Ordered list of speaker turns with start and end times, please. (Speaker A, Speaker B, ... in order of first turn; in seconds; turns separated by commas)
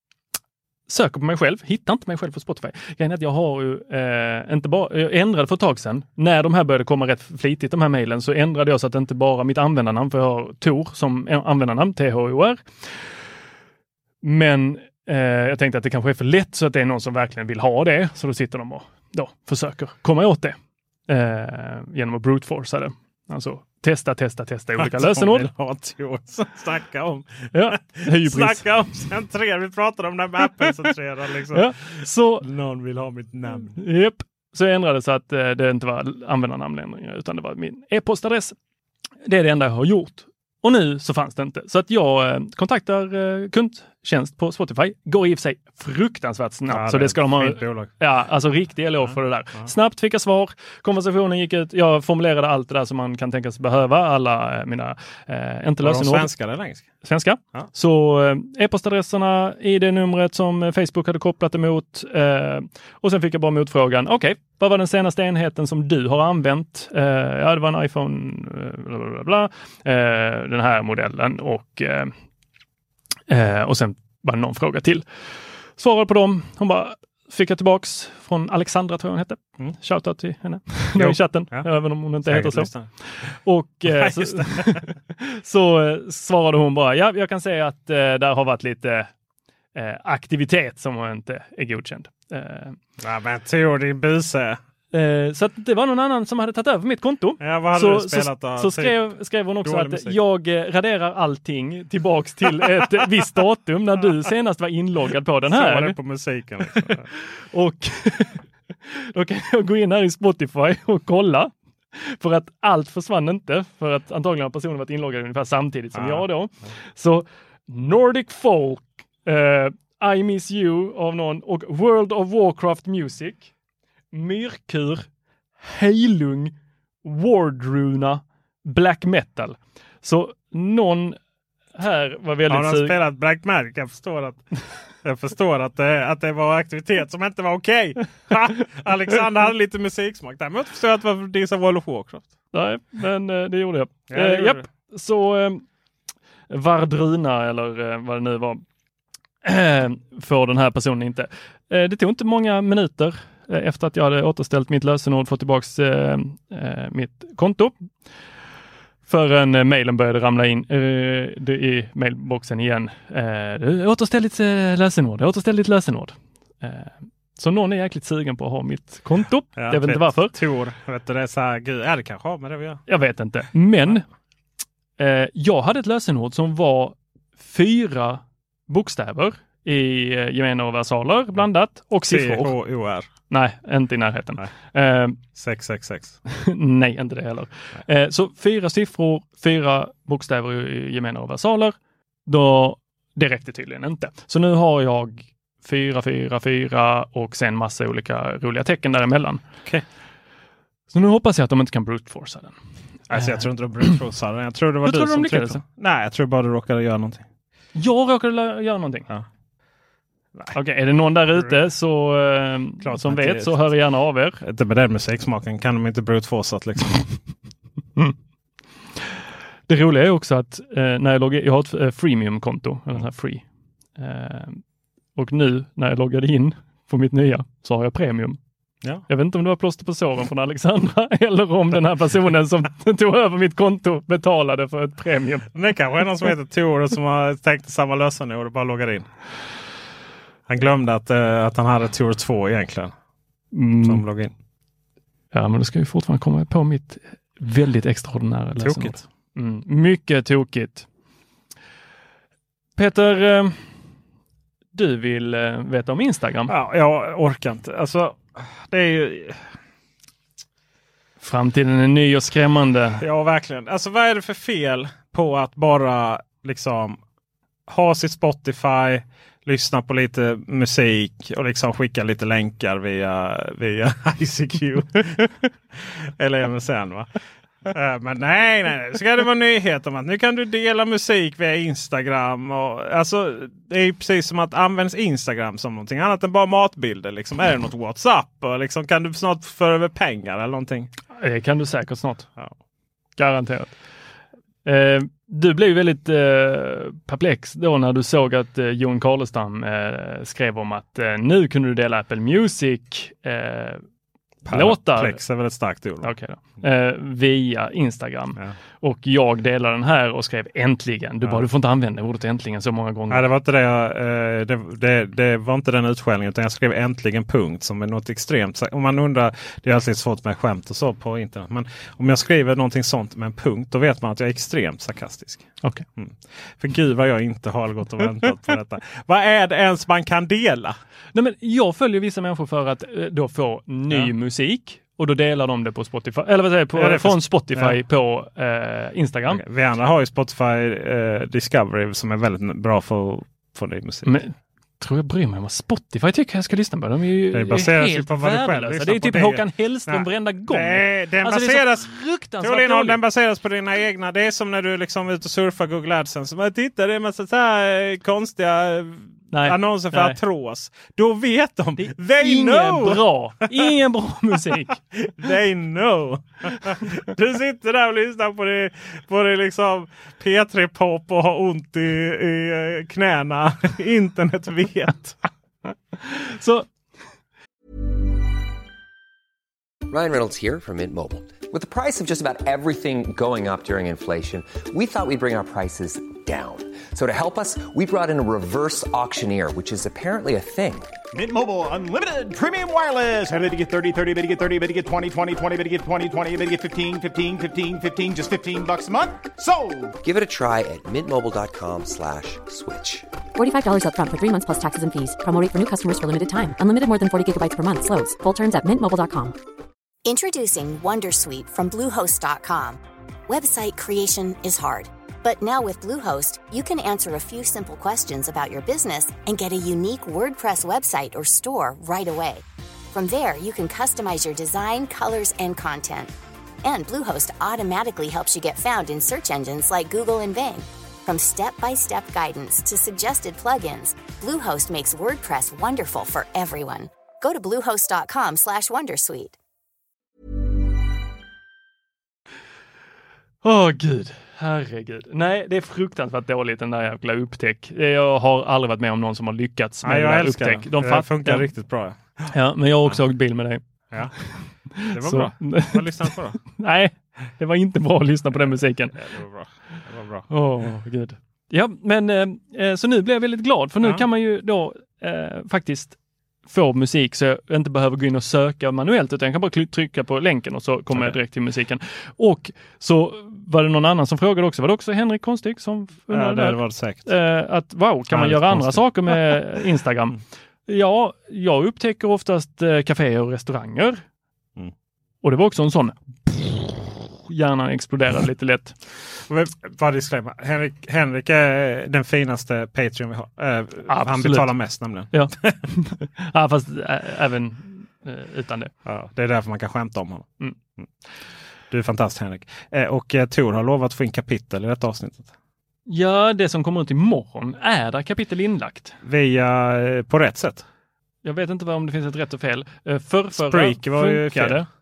Speaker A: 0.9-13.1, Speaker A: 14.2-20.6, Speaker A: 21.1-25.5, Speaker B: 24.8-33.8, Speaker A: 27.5-28.7, Speaker A: 31.5-32.5, Speaker A: 33.6-38.5, Speaker A: 39.3-56.3, Speaker B: 46.7-47.9, Speaker B: 49.0-49.7, Speaker B: 55.8-56.9, Speaker A: 57.0-72.1, Speaker A: 73.3-75.0, Speaker A: 75.8-89.1, Speaker B: 81.0-81.7, Speaker B: 82.3-82.9, Speaker B: 83.9-84.8, Speaker A: 89.8-92.8, Speaker B: 93.0-94.6, Speaker A: 94.9-106.0, Speaker B: 97.4-99.1, Speaker B: 99.6-100.2, Speaker B: 105.5-107.1, Speaker A: 107.5-123.5, Speaker B: 115.9-116.7, Speaker A: 124.1-125.1, Speaker A: 125.6-131.2, Speaker A: 131.8-133.0, Speaker B: 132.5-134.4, Speaker B: 135.0-142.3, Speaker A: 142.5-145.6, Speaker B: 144.1-144.6, Speaker A: 146.5-148.6, Speaker A: 149.4-157.9, Speaker A: 159.1-170.3, Speaker B: 169.6-172.8, Speaker A: 172.9-174.1, Speaker A: 175.0-182.5, Speaker B: 182.0-183.1, Speaker A: 183.3-185.2, Speaker B: 185.4-186.2, Speaker A: 186.3-191.8, Speaker A: 192.3-199.4, Speaker A: 200.9-202.6, Speaker A: 203.1-204.0, Speaker B: 203.1-207.2, Speaker A: 204.8-205.6, Speaker A: 207.8-209.1, Speaker A: 210.5-214.4, Speaker B: 212.8-213.8, Speaker B: 214.4-217.1, Speaker A: 219.7-223.4, Speaker A: 224.0-224.6, Speaker A: 225.2-228.4, Speaker A: 229.1-235.5, Speaker B: 235.5-239.1, Speaker B: 240.5-242.9, Speaker A: 243.5-244.0, Speaker B: 243.8-244.3, Speaker A: 245.3-250.9, Speaker B: 248.6-249.0, Speaker A: 252.8-253.6, Speaker A: 254.7-256.5, Speaker B: 256.5-259.5, Speaker A: 261.2-263.0, Speaker B: 263.0-267.0, Speaker B: 267.7-277.1, Speaker B: 277.7-290.9, Speaker A: 291.2-292.3, Speaker A: 293.2-293.8, Speaker A: 294.6-303.8, Speaker B: 304.4-306.1, Speaker A: 304.5-305.2, Speaker A: 306.0-313.2, Speaker B: 313.1-330.8, Speaker A: 331.1-339.4, Speaker B: 336.8-337.8, Speaker B: 339.3-344.1, Speaker A: 344.1-353.0, Speaker B: 347.3-363.7, Speaker A: 359.3-360.2, Speaker A: 361.8-364.8, Speaker B: 364.6-375.2, Speaker A: 376.0-376.7, Speaker C: 379.9-390.9, Speaker D: 391.1-399.9, Speaker C: 400.0-403.2, Speaker E: 403.4-409.4, Speaker F: 410.1-426.1, Speaker F: 426.6-439.4, Speaker A: 443.4-451.5, Speaker B: 449.8-452.3, Speaker A: 452.3-453.6, Speaker A: 454.1-459.0, Speaker B: 454.8-456.4, Speaker B: 458.4-460.2, Speaker A: 460.3-466.0, Speaker A: 466.5-484.0, Speaker B: 476.1-477.1, Speaker B: 478.1-479.4, Speaker A: 485.2-488.8, Speaker B: 489.3-495.6, Speaker A: 493.9-494.6, Speaker A: 495.1-498.7, Speaker B: 498.9-500.3, Speaker B: 501.7-505.3, Speaker A: 505.9-509.0, Speaker B: 509.0-510.6, Speaker A: 511.2-514.7, Speaker B: 513.4-514.7